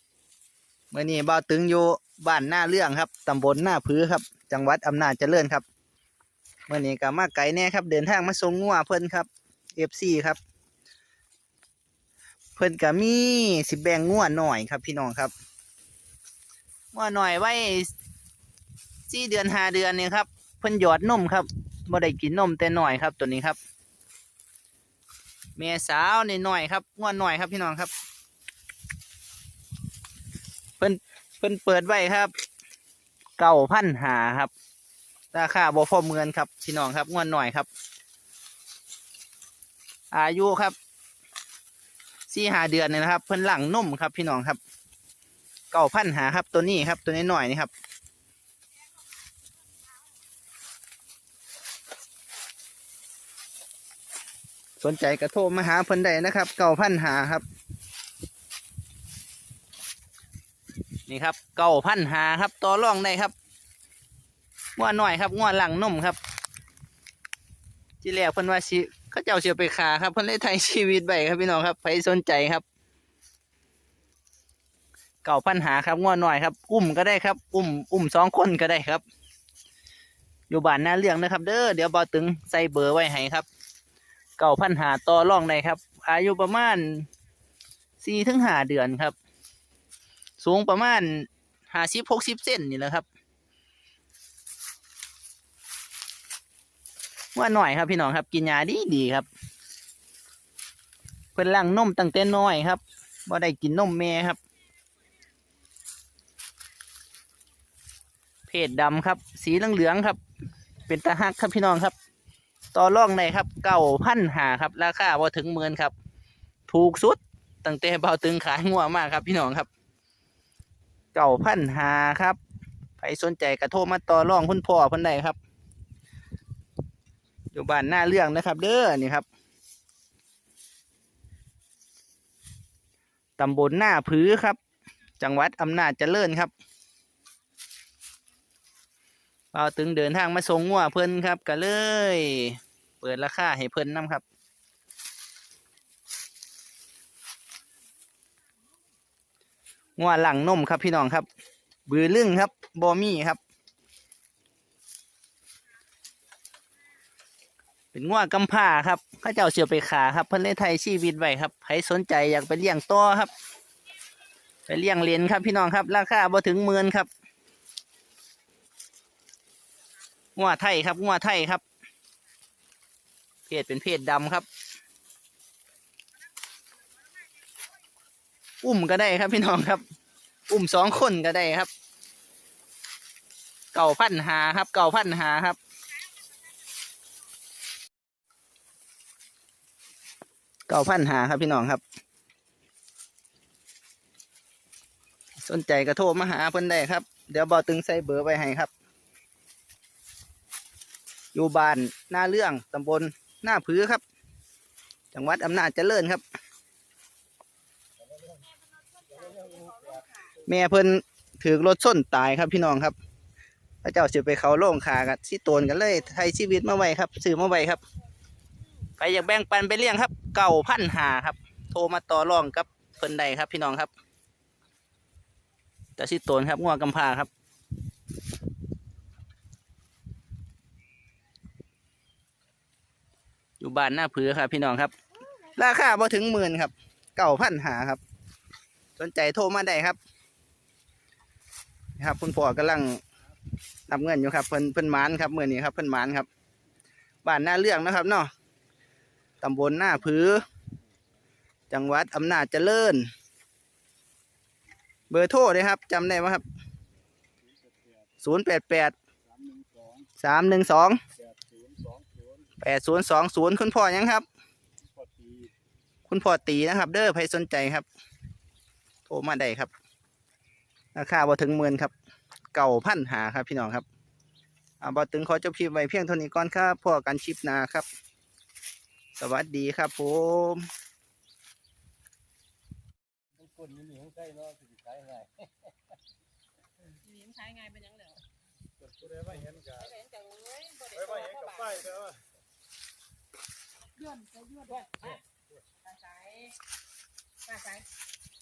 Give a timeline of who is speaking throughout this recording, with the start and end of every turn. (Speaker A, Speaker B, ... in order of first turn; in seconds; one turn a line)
Speaker A: 0.9-5.6
Speaker A: 6.7-10.4
Speaker A: 12.6-15.3
Speaker A: 16.9-17.9
Speaker A: 19.1-23.6
Speaker A: 25.6-27.9
Speaker A: 30.8-32.3
Speaker A: 33.4-34.5
Speaker A: 35.3-37.7
Speaker A: 40.1-40.8
Speaker A: 42.3-44.6
Speaker A: 45.7-47.7
Speaker A: 54.8-57.4
Speaker A: 61.1-63.3
Speaker A: 64.8-66.2
Speaker A: 68.0-72.6
Speaker A: 75.2-79.0
Speaker A: 80.5-83.5
Speaker A: 84.4-87.1
Speaker A: 88.0-89.1
Speaker A: 90.4-93.0
Speaker A: 97.3-99.3
Speaker A: 101.3-104.4
Speaker A: 108.5-110.2
Speaker A: 110.9-112.0
Speaker A: 112.7-115.9
Speaker A: 116.7-119.7
Speaker A: 121.1-122.4
Speaker A: 123.0-125.4
Speaker A: 127.5-129.2
Speaker A: 133.4-134.6
Speaker A: 135.2-136.5
Speaker A: 139.5-144.2
Speaker A: 150.0-151.3
Speaker A: 151.9-153.4
Speaker A: 157.9-163.3
Speaker A: 164.7-167.1
Speaker A: 170.3-171.6
Speaker A: 173.5-174.5
Speaker A: 178.6-179.8
Speaker A: 180.5-181.7
Speaker A: 183.7-185.6
Speaker A: 190.7-191.8
Speaker A: 195.4-198.7
Speaker A: 201.3-204.0
Speaker A: 205.1-206.2
Speaker B: 209.2-209.9
Speaker A: 210.4-212.9
Speaker A: 213.8-217.8
Speaker A: 219.0-223.9
Speaker A: 226.0-227.3
Speaker A: 233.6-238.0
Speaker A: 239.0-240.0
Speaker A: 242.0-243.0
Speaker A: 243.9-246.3
Speaker A: 247.2-248.3
Speaker A: 249.4-250.4
Speaker A: 251.7-253.1
Speaker A: 255.1-256.4
Speaker A: 258.2-259.0
Speaker B: 259.4-260.1
Speaker A: 260.2-261.0
Speaker B: 261.3-262.4
Speaker A: 262.6-264.2
Speaker B: 265.0-265.5
Speaker A: 266.1-267.9
Speaker A: 269.1-269.7
Speaker A: 270.9-271.9
Speaker A: 272.5-273.9
Speaker A: 274.8-277.9
Speaker A: 279.2-280.7
Speaker B: 283.5-285.3
Speaker C: 287.1-288.1
Speaker B: 289.1-289.9
Speaker C: 290.0-291.1
Speaker B: 291.1-292.1
Speaker C: 294.1-294.8